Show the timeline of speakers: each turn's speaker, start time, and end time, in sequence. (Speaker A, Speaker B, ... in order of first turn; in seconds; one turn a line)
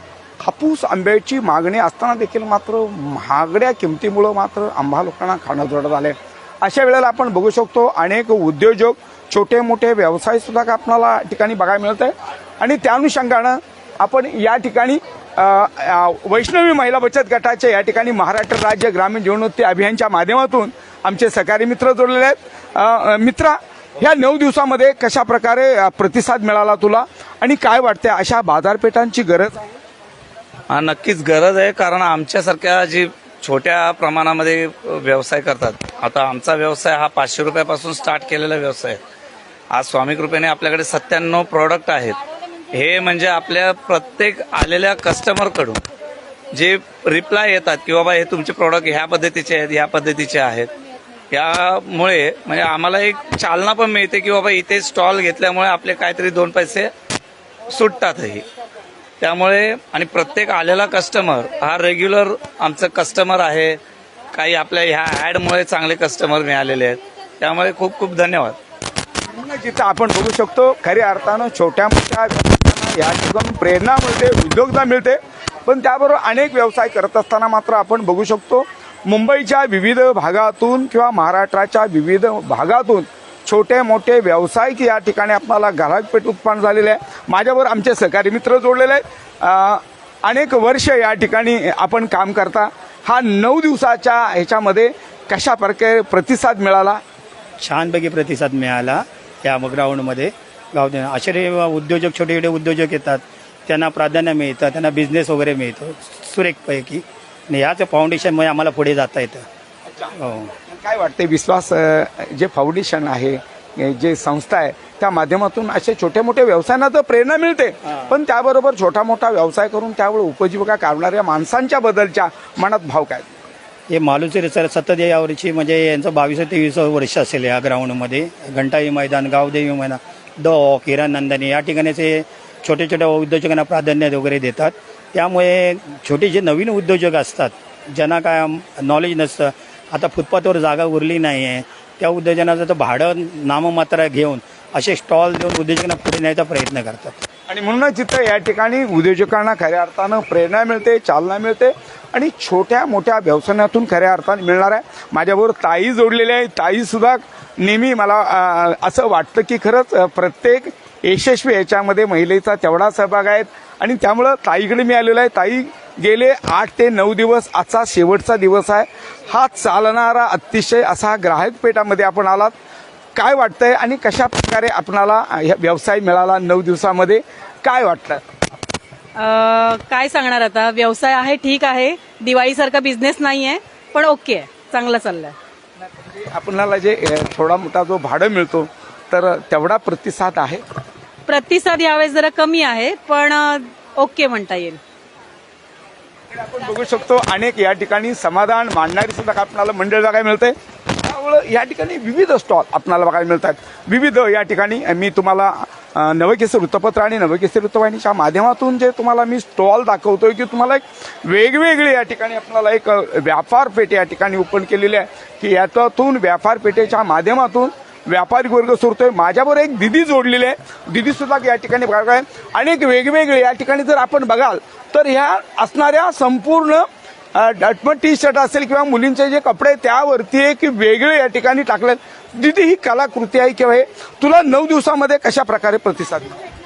Speaker A: 0.4-29.7
Speaker B: 30.7-39.0
Speaker B: 39.7-42.2
Speaker B: 42.7-45.8
Speaker B: 46.5-50.7
Speaker B: 51.3-56.9
Speaker B: 57.7-58.4
Speaker B: 59.2-63.8
Speaker B: 64.3-68.6
Speaker A: 69.3-97.0
Speaker C: 97.6-109.5
Speaker A: 109.9-110.1
Speaker C: 110.2-110.5
Speaker A: 110.7-123.3
Speaker C: 123.9-147.2
Speaker A: 147.5-172.5
Speaker A: 173.2-178.2
Speaker D: 179.2-185.3
Speaker A: 185.8-190.6
Speaker D: 191.3-194.8
Speaker A: 196.3-226.8
Speaker A: 227.3-236.4